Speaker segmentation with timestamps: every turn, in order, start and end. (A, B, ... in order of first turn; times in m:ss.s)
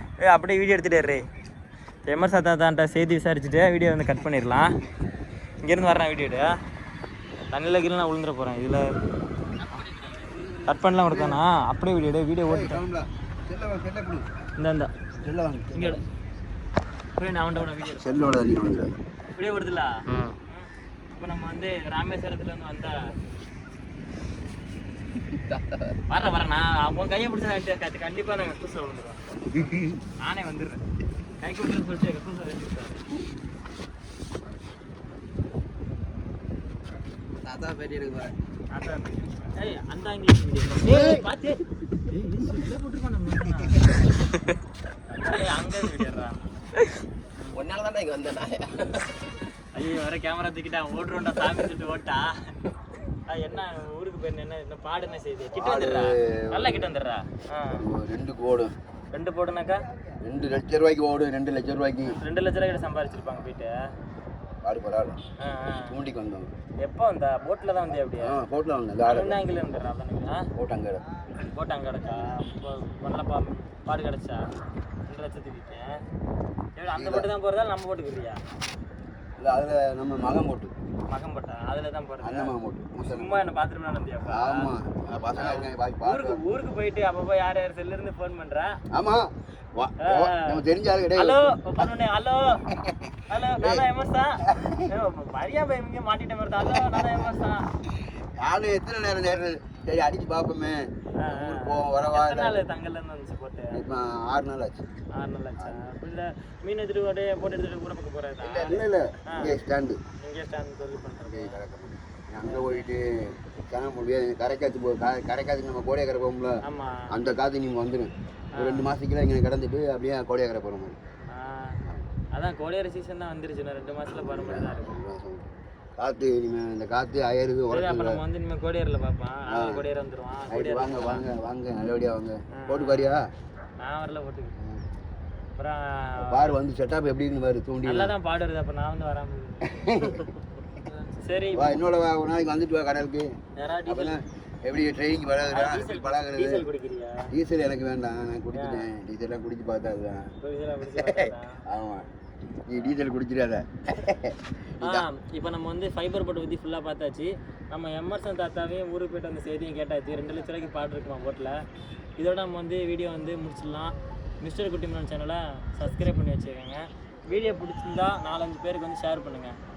0:00.2-0:01.3 A
0:02.0-0:04.8 A
0:05.6-0:06.6 A
0:07.5-0:08.9 A
0:09.6-0:12.8 A
0:10.2-0:11.4 B
0:12.5-0:14.3 B
0:14.6-0:14.9 A
0:15.2-0:16.0 B
0:15.7-0:16.0 A
0:17.2-0:18.5 A
0:17.8-0:19.0 B
0:19.3-0:23.1 A
0:26.1-0:30.8 A
0:29.6-0:30.0 B
0:31.4-0:33.0 A
0:37.4-0:38.3 C
0:38.7-0:44.1 A
0:45.1-0:47.7 A
0:47.5-0:49.2 C
0:49.6-0:52.7 A
0:53.2-0:57.9 A
0:55.6-0:56.9 B
0:57.7-0:58.8 B
0:59.1-0:59.9 A
1:00.2-1:02.2 B
1:02.0-1:03.9 A
1:04.6-1:05.2 B
1:05.4-1:06.0 A
1:05.8-1:06.5 B
1:06.8-1:08.4 A
1:08.2-1:09.4 B
1:09.0-1:10.5 A
1:10.6-1:11.0 B
1:11.3-1:14.4 A
1:15.1-1:16.0 A
1:16.8-1:18.4 A
1:16.9-1:17.3 B
1:19.4-1:20.7 B
1:21.1-1:24.7 A
1:22.2-1:23.5 B
1:24.3-1:26.4 B
1:25.3-1:28.8 A
1:28.9-1:31.6 B
1:30.0-1:30.6 A
1:31.1-1:32.7 A
1:32.7-1:33.9 B
1:33.3-1:37.7 A
1:34.4-1:34.9 B
1:37.8-1:42.6 B
1:41.2-1:43.8 A
1:43.7-1:44.9 B
1:45.1-1:49.5 A
1:45.6-1:45.9 B
1:48.4-1:50.0 B
1:50.2-1:51.6 A
1:51.3-2:01.0 B
1:52.4-1:52.9 A
1:56.6-1:57.2 A
1:58.5-1:58.9 A
2:01.3-2:01.8 A
2:01.8-2:02.1 B
2:02.3-2:05.0 A
2:04.0-2:08.2 B
2:07.7-2:11.2 A
2:09.5-2:09.8 B
2:10.5-2:13.2 B
2:12.5-2:13.2 A
2:13.8-2:14.6 A
2:15.6-2:16.6 A
2:16.2-2:18.1 B
2:17.8-2:20.3 A
2:19.6-2:20.3 B
2:20.8-2:21.8 A
2:21.5-2:23.3 B
2:23.6-2:24.2 A
2:23.8-2:26.6 B
2:25.4-2:27.3 A
2:27.3-2:30.3 B
2:28.5-2:28.9 A
2:30.4-2:31.6 A
2:31.0-2:32.1 B
2:32.7-2:35.1 B
2:34.8-2:41.6 A
2:42.2-2:49.6 A